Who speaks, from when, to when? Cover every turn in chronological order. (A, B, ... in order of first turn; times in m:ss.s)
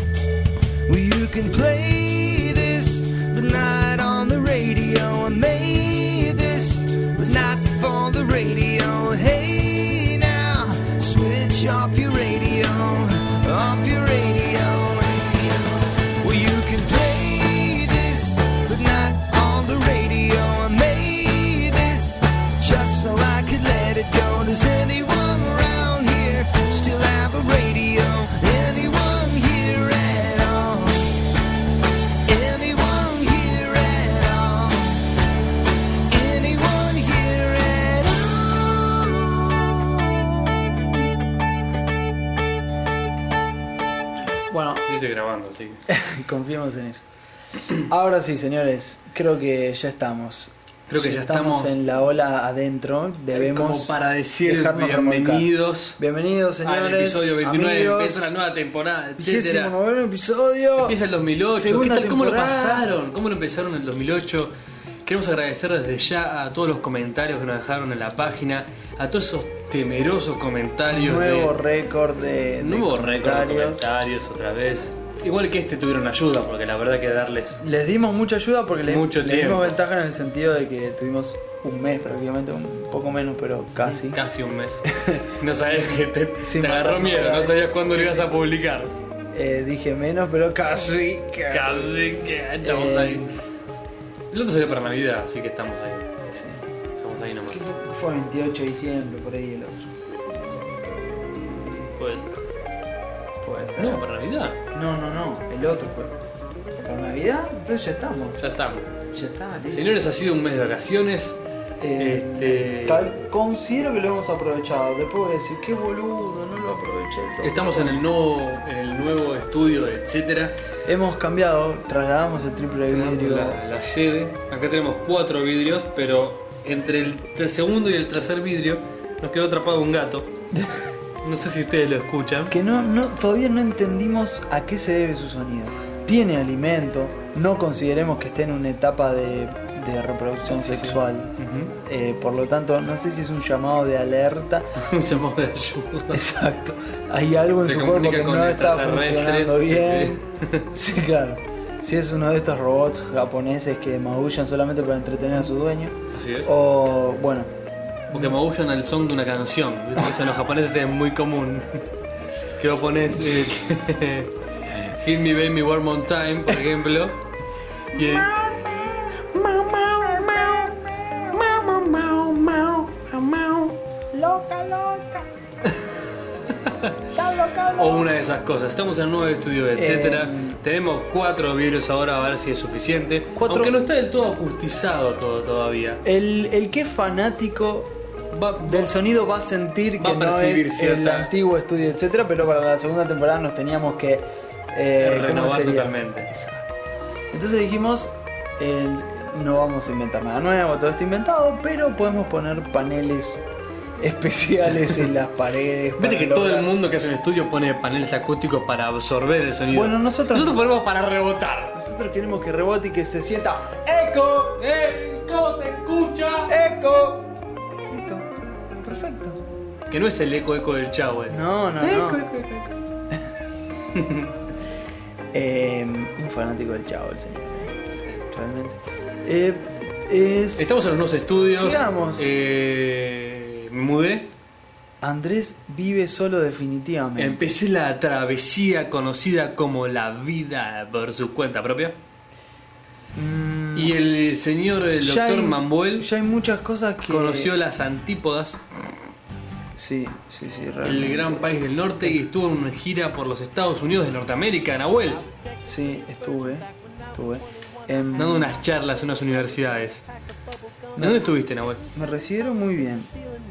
0:00.9-0:31.2 A
0:32.2-0:35.1 A
0:36.1-0:40.6 A
0:44.5-0:44.8 B
0:44.8-0:45.8 C
0:45.9-0:47.0 B
0:47.7-0:58.3 B
0:50.9-0:51.8 C
0:53.3-0:56.0 C
0:56.6-0:59.7 C
0:59.2-1:01.0 B
1:00.8-1:04.5 C
1:01.5-1:02.8 B
1:05.0-1:11.6 C
1:10.9-1:13.8 B
1:12.6-1:17.6 C
1:17.6-1:24.2 B
1:18.8-1:19.8 C
1:23.8-1:28.9 C
1:24.9-1:28.4 B
1:29.3-1:32.0 B
1:31.5-1:33.3 C
1:32.6-1:33.3 B
1:34.3-1:36.2 C
1:36.3-1:36.6 B
1:37.0-1:37.7 C
1:37.5-1:39.9 B
1:41.7-1:42.3 C
1:43.4-1:44.1 B
1:43.8-1:44.6 C
1:44.7-1:46.2 B
1:46.8-1:48.4 B
1:48.4-1:48.9 C
1:49.1-1:49.9 B
1:49.7-1:51.4 C
1:51.8-1:58.0 B
1:52.0-1:53.1 C
1:57.4-2:00.5 C
2:00.8-2:03.6 B
2:02.9-2:10.3 C
2:10.5-2:10.8 B
2:11.2-2:12.5 C
2:12.5-2:24.8 B
2:20.5-2:21.7 C
2:24.8-2:26.2 C
2:26.1-2:37.5 B
2:27.6-2:30.7 C
2:36.1-2:36.5 C
2:38.1-2:41.8 C
2:42.6-2:47.2 C
2:47.9-2:48.4 C
2:47.9-2:51.6 B
2:49.3-2:50.7 C
2:51.3-2:53.8 C
2:54.1-2:55.3 B
2:55.6-2:57.0 C
2:57.1-2:58.1 B
2:57.7-3:06.0 C
2:59.7-3:00.6 B
3:03.4-3:03.8 B
3:06.0-3:07.9 B
3:08.3-3:08.9 C
3:08.6-3:16.7 B
3:10.0-3:11.3 C
3:15.0-3:16.3 C
3:17.3-3:23.4 B
3:24.0-3:26.7 B
3:26.0-3:31.8 C
3:29.7-3:30.6 B
3:31.7-3:34.6 B
3:34.6-3:36.5 C
3:36.5-3:37.3 B
3:37.9-3:38.3 B
3:38.8-3:39.4 B
3:39.9-3:42.7 C
3:41.3-3:42.2 B
3:43.9-3:44.3 C
3:45.3-3:50.8 B
3:47.9-3:48.2 C
3:50.6-3:54.3 C
3:51.5-3:52.3 B
3:55.0-3:57.6 B
3:57.2-4:02.0 C
4:03.1-4:04.0 B
4:03.7-4:06.1 C
4:05.0-4:07.5 B
4:07.1-4:08.6 C
4:09.7-4:11.5 B
4:10.8-4:15.2 C
4:15.6-4:18.5 B
4:18.2-4:20.0 C
4:21.0-4:21.4 B
4:21.0-4:21.8 C
4:21.9-4:23.1 B